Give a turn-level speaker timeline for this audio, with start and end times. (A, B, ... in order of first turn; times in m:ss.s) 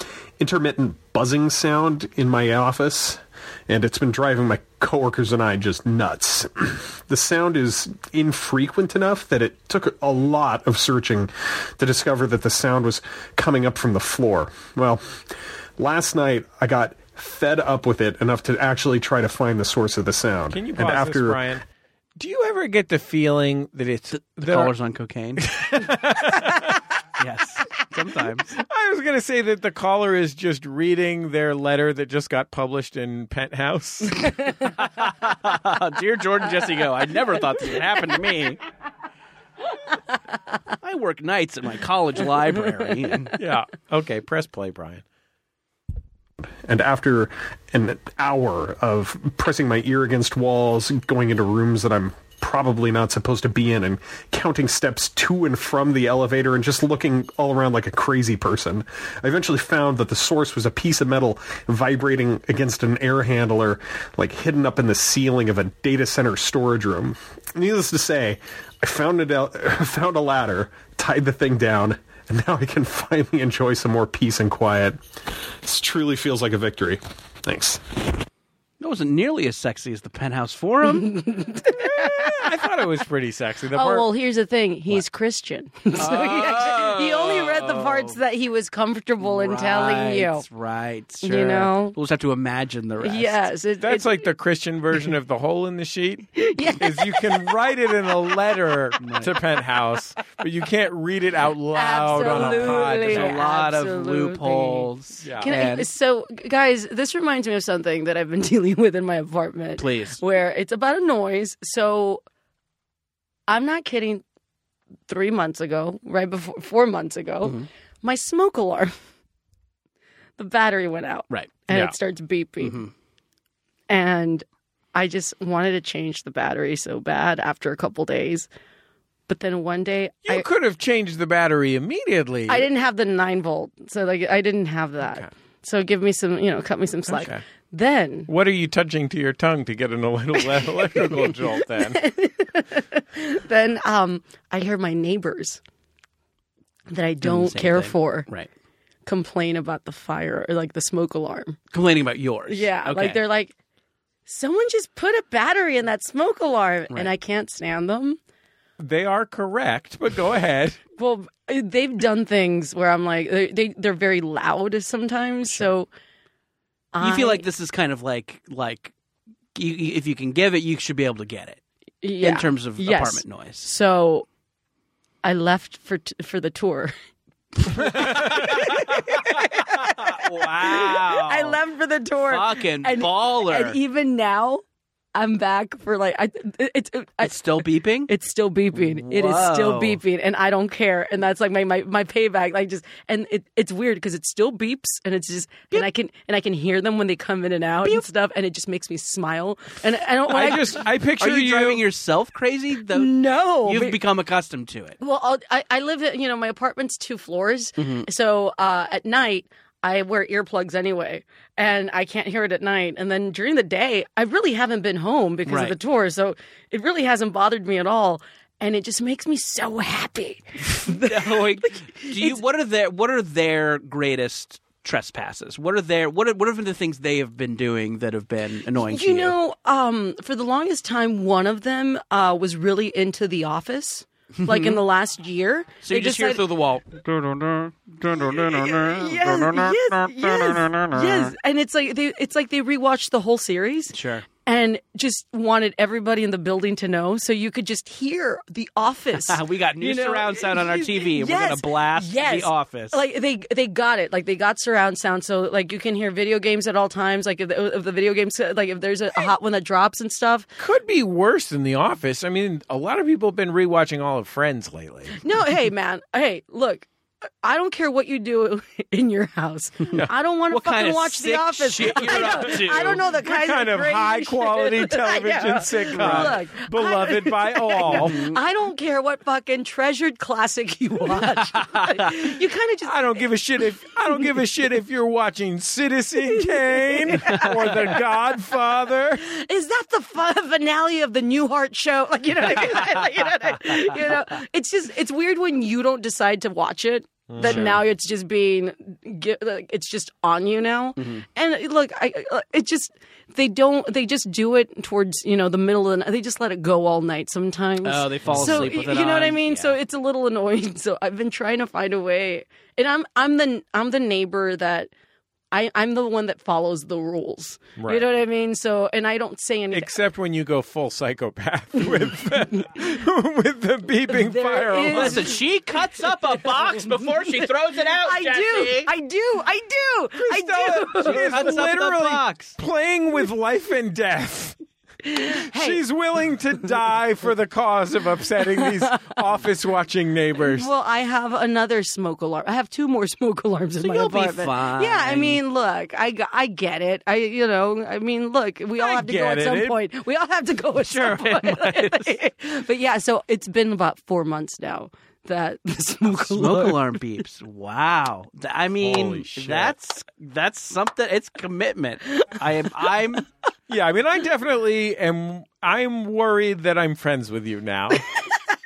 0:00.4-0:15.2 A
0:15.8-0:21.4 A
0:20.5-0:21.6 B
0:22.2-0:24.7 B
0:24.1-0:25.5 C
0:25.4-0:26.8 B
0:27.2-0:28.6 C
0:28.6-0:34.3 B
0:34.6-0:38.6 C
0:40.8-0:43.3 C
0:43.4-0:45.0 B
0:46.6-1:15.0 A
1:15.6-1:18.0 A
1:18.8-1:21.2 C
1:21.0-1:22.4 D
1:21.7-1:24.1 B
1:23.7-1:30.4 D
1:26.0-1:28.2 C
1:29.2-1:33.5 C
1:31.2-1:32.0 D
1:33.0-1:34.2 D
1:33.8-1:43.4 B
1:36.4-1:37.5 D
1:39.0-1:39.3 C
1:41.7-1:52.2 D
1:42.2-1:45.9 C
1:45.2-1:45.5 B
1:49.8-1:50.2 C
1:53.5-1:54.2 D
1:55.1-1:58.9 D
2:00.4-2:02.8 D
2:02.6-2:02.9 C
2:03.9-2:08.5 D
2:09.3-2:10.4 D
2:10.3-2:12.7 B
2:12.5-2:18.3 D
2:15.0-2:15.3 B
2:17.1-2:17.4 B
2:18.3-2:22.0 B
2:20.4-2:25.6 D
2:26.9-2:28.3 D
2:27.2-2:28.5 C
2:29.1-2:31.6 D
2:31.7-2:33.2 C
2:32.5-2:33.5 D
2:34.3-2:38.2 D
2:38.8-2:40.8 B
2:41.0-2:45.9 D
2:46.9-2:47.4 D
2:47.0-2:48.9 C
2:49.6-2:51.6 C
2:52.0-2:54.3 D
2:52.2-2:53.7 C
2:55.2-2:56.9 D
2:57.7-3:01.6 C
2:57.7-3:04.6 D
2:57.9-2:58.2 B
3:02.2-3:03.8 C
3:05.1-3:20.8 D
3:07.2-3:08.1 C
3:08.7-3:10.0 C
3:20.3-3:21.8 B
3:21.2-3:25.0 C
3:22.9-3:24.0 D
3:25.0-3:42.4 D
3:27.8-3:28.1 C
3:35.5-3:35.8 C
3:40.8-3:49.4 C
3:48.8-3:56.4 D
3:54.4-3:54.8 C
3:55.8-3:57.0 C
3:58.1-4:20.5 D
4:03.9-4:04.3 C
4:09.1-4:13.0 C
4:20.6-4:25.2 B
4:25.2-4:26.9 D
4:27.4-4:42.9 D
4:30.5-4:33.1 C
4:32.1-4:38.2 B
4:35.9-4:36.4 C
4:37.9-4:38.4 C
4:41.1-4:42.1 C
4:42.8-4:49.2 B
4:46.4-4:47.8 D
4:47.2-4:47.5 C
4:49.2-5:14.9 D
4:57.3-4:57.8 B
4:57.4-4:57.8 C
5:01.0-5:01.2 C
5:07.8-5:09.8 C
5:08.3-5:08.8 B
5:15.5-5:19.9 D
5:17.8-5:18.1 B
5:19.7-5:25.3 B
5:24.1-5:25.4 D
5:24.9-5:28.9 C
5:28.0-5:31.6 D
5:30.2-5:34.6 B
5:31.0-5:32.6 C
5:35.0-5:35.8 D
5:35.2-5:40.7 B
5:38.6-5:39.1 D
5:40.4-5:56.8 D
5:43.8-5:45.4 C
5:48.8-5:49.8 B
5:50.8-5:52.2 C
5:56.2-6:03.3 C
5:58.8-5:59.8 B
6:03.7-6:08.0 B